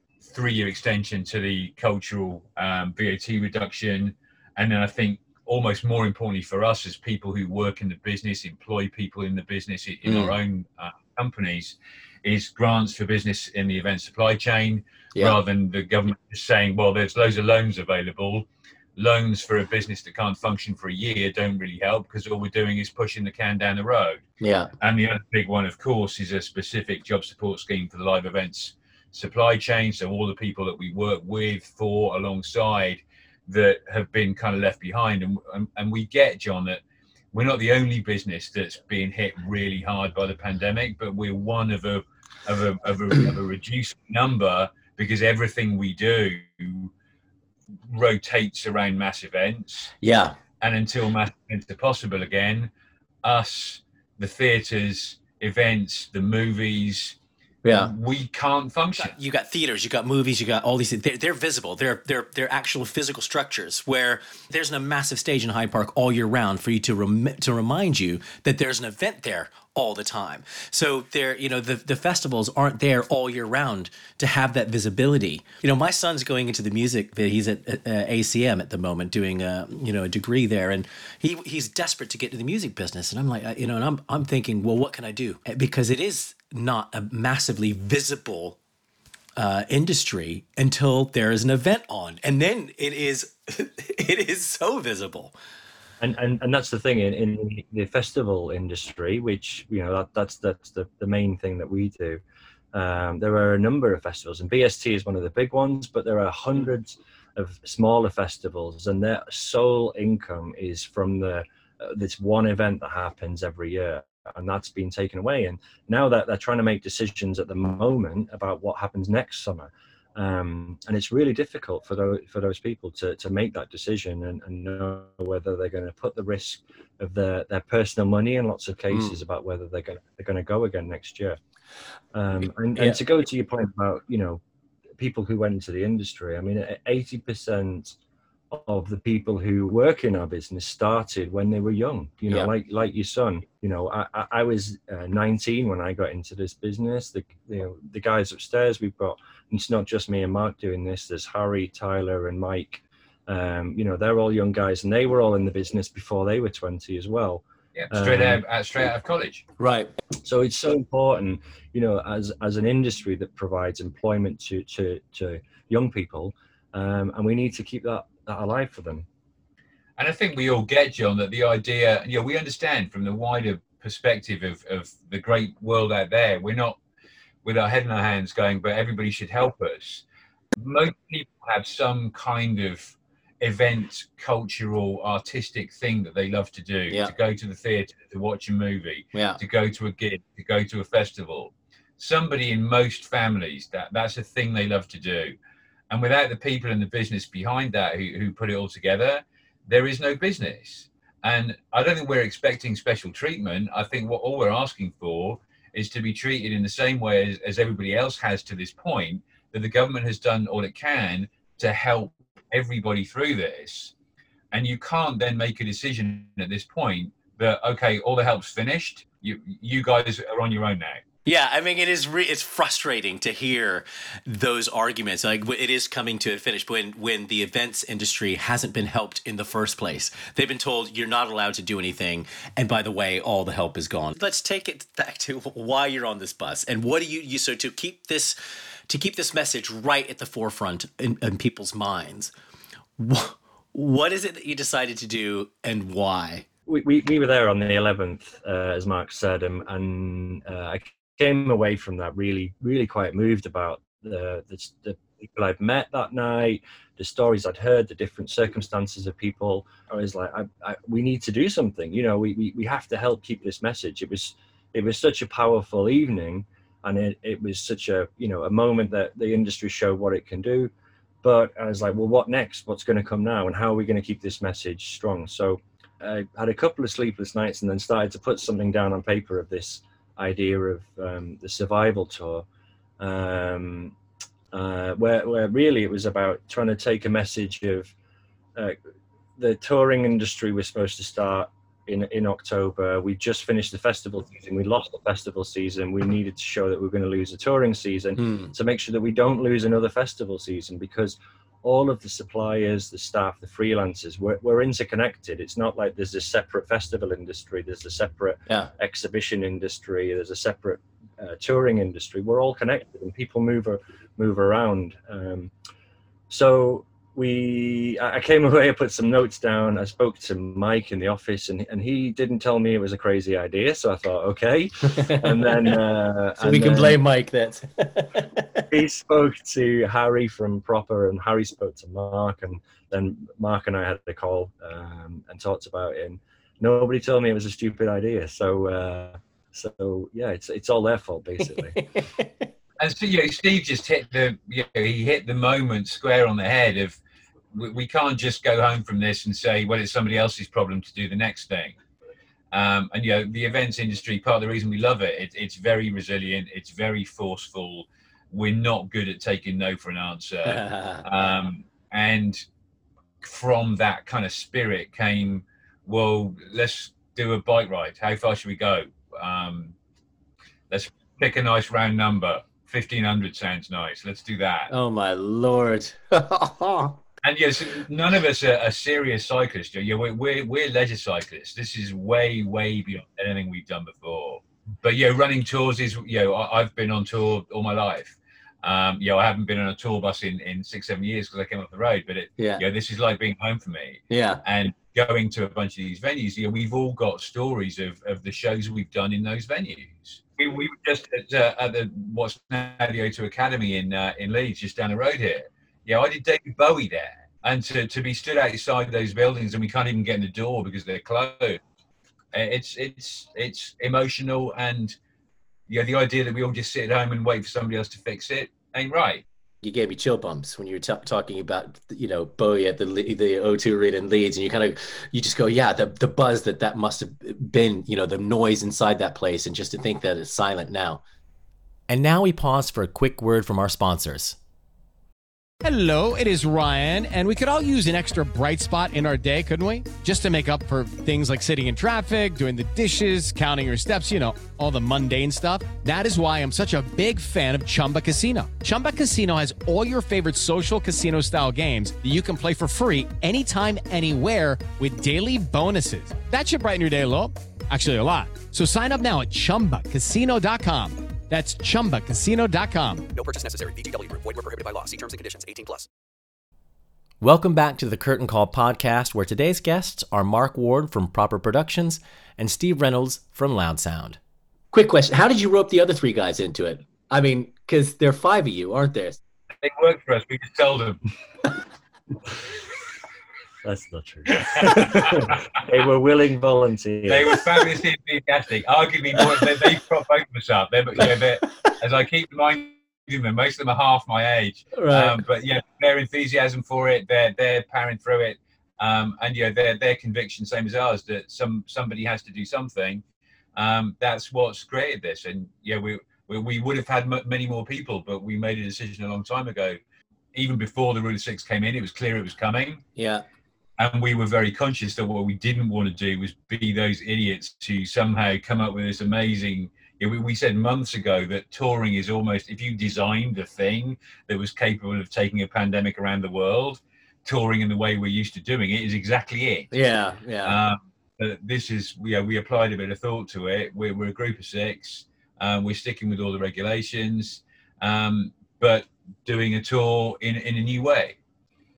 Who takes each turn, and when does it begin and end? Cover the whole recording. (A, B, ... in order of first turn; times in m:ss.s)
0:00.2-0:24.2 A
0:10.1-0:10.4 B
0:24.4-0:24.7 B
0:24.8-0:36.8 A
0:37.3-0:46.9 A
0:47.9-0:49.9 A
0:50.0-0:50.4 B
0:50.6-0:52.7 A
0:53.2-0:57.2 A
0:57.6-0:57.9 B
0:57.7-0:59.1 A
0:59.0-1:28.6 B
1:29.4-1:35.4 B
1:36.0-1:42.2 C
1:42.7-2:11.4 C
2:08.9-2:09.2 B
2:12.1-2:14.4 C
2:12.8-2:13.0 B
2:15.0-2:18.0 C
2:18.5-2:38.4 C
2:37.8-2:39.4 A
2:39.6-2:39.9 B
2:40.2-2:49.1 C
2:50.0-2:56.8 A
2:57.4-3:00.0 A
3:00.6-3:15.4 A
3:09.1-3:09.4 B
3:15.9-3:33.9 A
3:34.5-3:41.0 A
3:41.3-3:58.4 B
3:58.9-4:02.3 B
4:03.0-4:06.5 B
4:06.7-4:42.5 C
4:43.0-4:44.0 C
4:44.5-4:47.9 C
4:49.4-5:15.5 C
4:58.2-4:58.5 B
5:16.3-5:27.0 C
5:24.9-5:25.4 B
5:26.4-5:28.6 B
5:28.7-5:41.8 C
5:41.5-5:42.5 B
5:42.8-5:47.0 A
5:47.5-5:51.8 A
5:52.5-6:02.4 A
6:00.5-6:01.0 B
6:03.2-6:09.7 A
6:10.7-6:14.7 A
6:14.7-6:17.0 B
6:17.2-6:51.6 A
6:32.4-6:32.6 B
6:34.1-6:34.4 B
6:52.3-6:55.0 A
6:55.7-6:59.2 A
6:59.6-7:11.0 B
7:11.9-7:14.4 B
7:15.6-7:43.1 D
7:43.1-7:45.9 E
7:47.2-7:54.2 B
7:54.7-7:59.2 B
7:59.6-8:01.0 A
8:03.6-8:07.4 C
8:04.6-8:05.3 A
8:07.1-8:23.0 A
8:14.7-8:15.2 B
8:23.6-8:29.8 A
8:30.3-8:32.8 A
8:33.0-8:33.2 B
8:33.8-8:49.7 A
8:49.7-8:50.6 B
8:50.4-9:01.2 A